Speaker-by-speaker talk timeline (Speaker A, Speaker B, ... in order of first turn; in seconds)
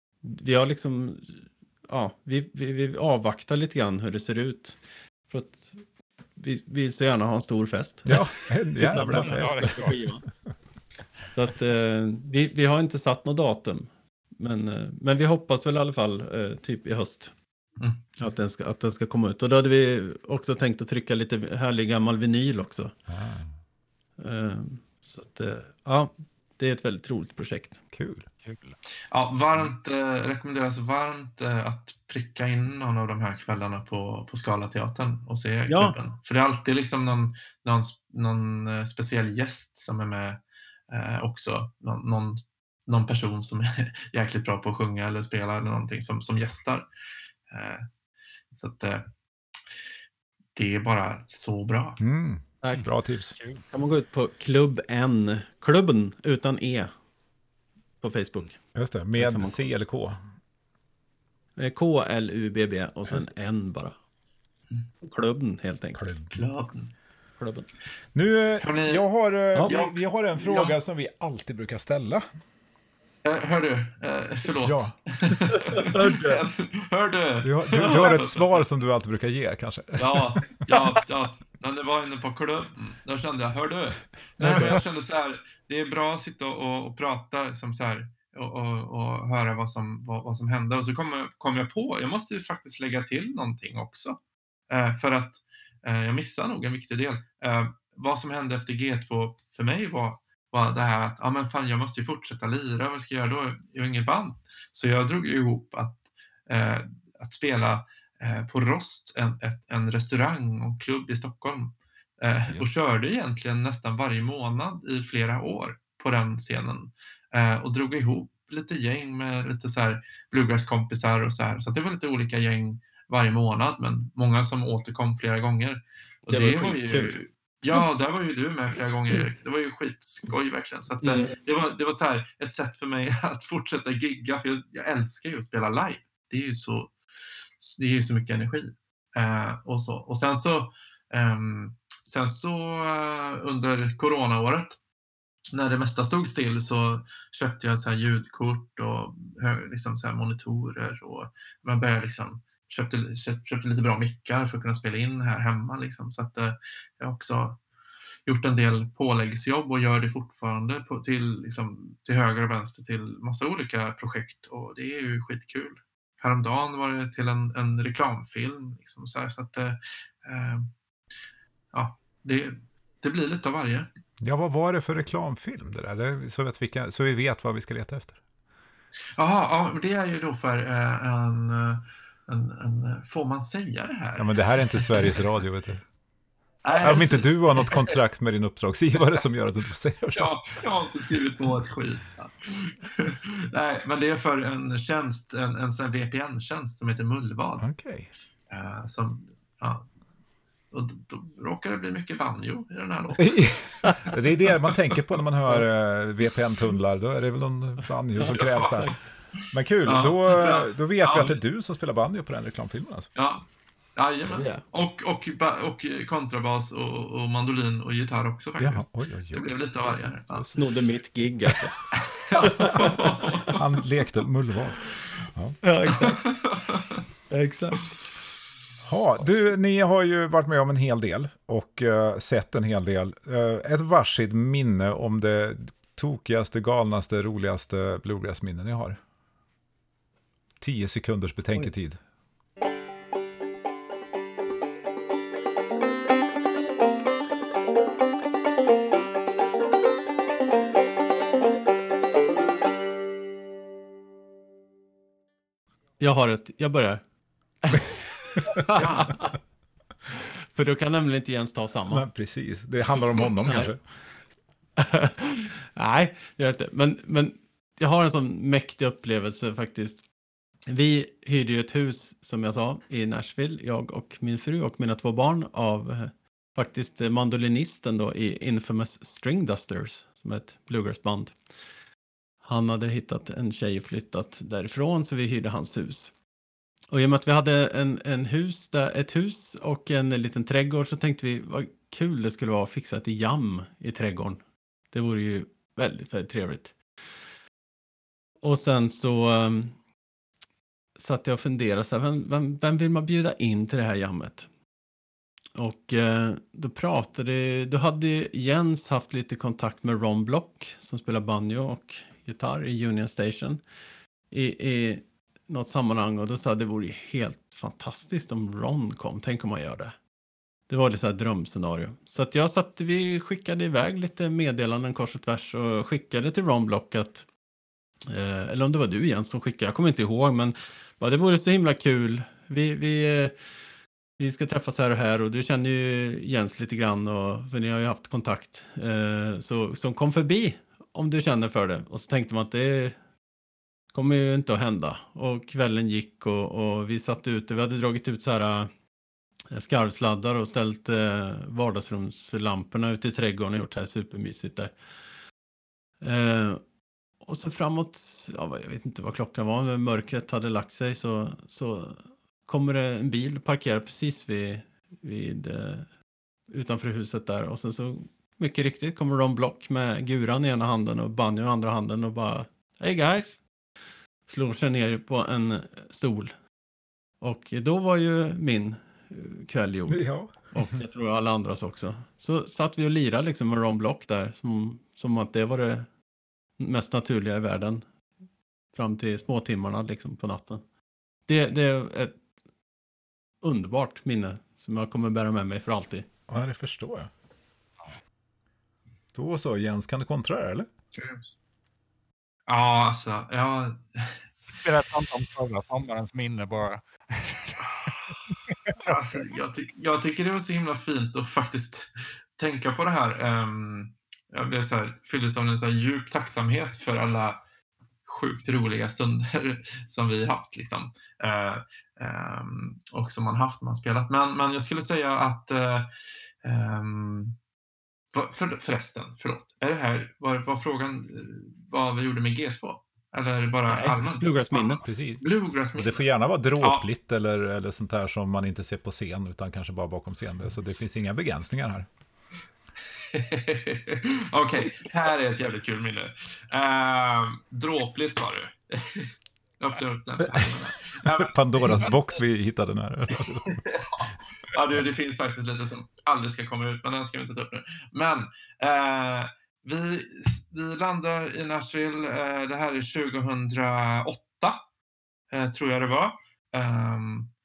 Speaker A: 0.2-5.8, 6.3-10.2, 11.3-17.3, 18.2-22.9, 24.2-27.8, 35.7-36.0, 53.7-56.9, 58.0-58.6, 59.2-59.7, 61.6-64.0, 65.0-66.1, 67.4-67.7, 75.5-76.5, 84.4-84.8, 126.3-127.2, 131.0-131.3, 208.2-208.9, 214.3-214.6, 220.5-221.8, 222.4-223.5, 225.6-226.2, 227.3-228.0, 256.0-257.0, 257.6-259.4, 260.5-262.1, 264.8-270.0, 270.7-281.4, 282.4-286.1, 286.9-296.8, 298.4-299.8, 301.0-304.5, 305.6-313.6, 314.3-319.9, 320.7-327.3, 328.1-333.3, 334.2-343.0, 343.9-348.7, 349.5-354.7, 356.0-356.6, 357.2-365.9, 366.5-373.4, 374.3-376.3, 377.2-385.9, 386.6-387.8, 388.7-390.6, 391.3-392.2, 393.4-396.1, 433.7-434.8
Speaker B: 8.1-9.8, 23.1-23.5, 27.9-28.3, 52.0-53.3, 58.7-60.2, 65.9-66.4, 68.1-72.2, 74.6-75.0, 77.4-80.4, 174.2-178.2, 184.2-185.8, 186.8-190.4, 197.6-198.1, 203.2-209.0, 209.5-213.1, 218.6-219.5, 220.3-220.6, 223.5-225.6, 228.8-239.0, 240.6-242.0, 261.9-263.8, 379.9-380.3, 396.3-397.1, 399.1-400.7, 434.8-435.2, 435.7-441.9, 451.0-453.6
Speaker C: 8.9-10.0, 28.4-28.8, 53.4-53.6, 404.6-409.3
Speaker D: 29.1-46.9, 47.5-47.9, 48.5-49.0, 50.5-52.0, 66.3-66.9, 68.6-69.0, 69.6-70.8, 73.2-78.6, 80.0-94.2, 94.7-136.9, 137.6-144.8, 145.5-157.6, 158.3-170.7, 171.7-173.9, 179.2-185.2, 186.6-188.0, 190.1-197.7, 198.5-199.9, 200.7-204.2, 208.3-208.9, 209.8-211.4, 213.1-220.5, 222.0-223.6, 226.0-227.0, 258.7-259.2, 400.9-401.3, 402.5-404.2, 408.8-417.4, 418.1-425.9, 426.4-427.4, 428.1-436.1, 436.6-436.8, 443.0-451.9, 453.4-464.6, 465.3-467.3